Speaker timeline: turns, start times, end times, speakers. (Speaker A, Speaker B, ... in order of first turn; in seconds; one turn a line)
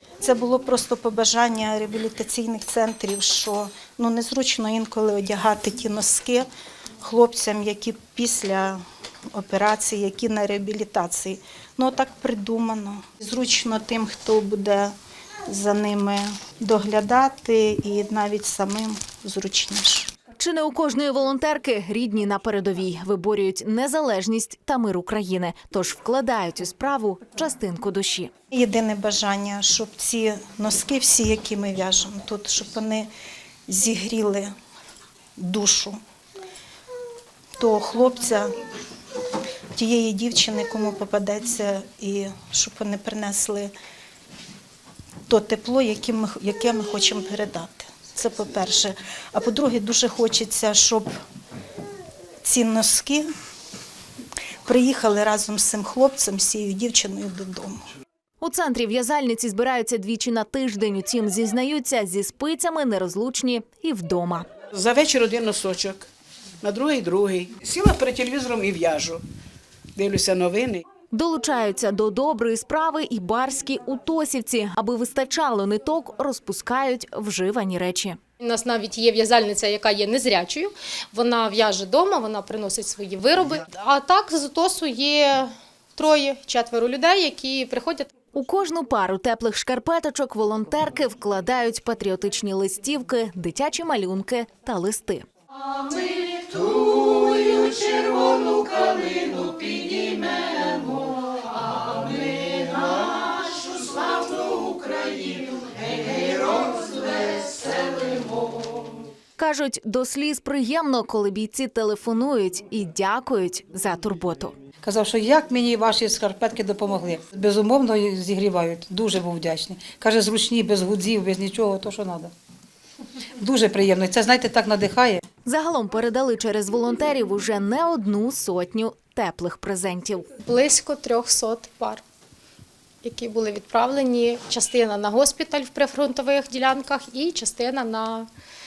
Speaker A: 0.2-6.5
Speaker A: 7.0-14.9
Speaker A: 15.5-20.1
Speaker B: 20.4-28.3
Speaker A: 28.5-33.1
Speaker A: 33.7-34.5
Speaker A: 35.4-36.0
Speaker A: 37.6-38.5
Speaker A: 39.8-43.7
Speaker A: 45.3-51.1
Speaker A: 52.4-53.3
Speaker A: 54.6-57.8
Speaker B: 58.4-64.5
Speaker C: 64.7-66.1
Speaker C: 66.6-69.2
Speaker C: 70.0-70.8
Speaker B: 71.1-78.2
Speaker D: 78.4-88.1
Speaker B: 88.3-95.3
Speaker C: 99.0-99.8
Speaker B: 109.4-114.5
Speaker E: 114.8-122.3
Speaker E: 123.4-125.2
Speaker B: 125.5-130.3
Speaker D: 130.4-132.0
Speaker D: 133.0-138.3